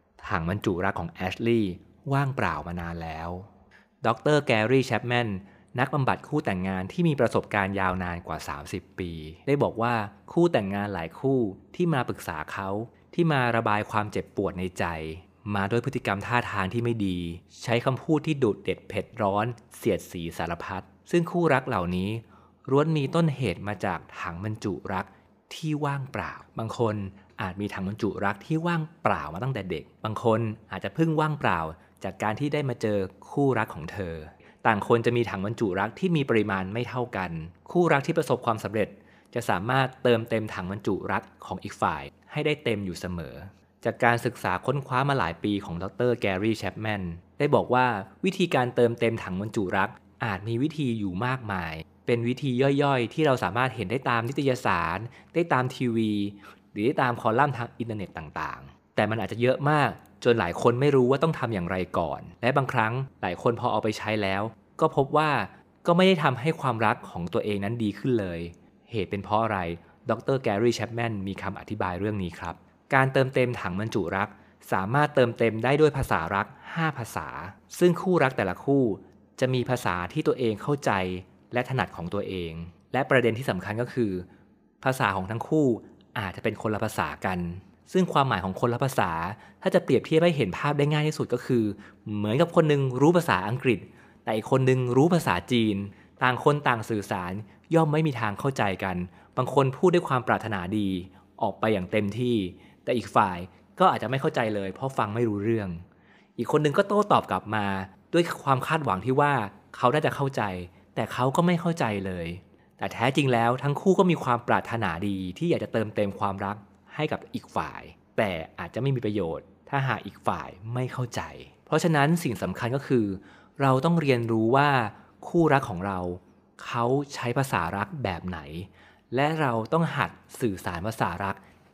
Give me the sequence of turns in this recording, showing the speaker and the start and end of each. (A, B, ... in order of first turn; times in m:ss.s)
0:00.2-0:03.5 A
0:04.0-1:24.3 A
1:24.8-1:45.8 A
1:46.4-2:11.4 A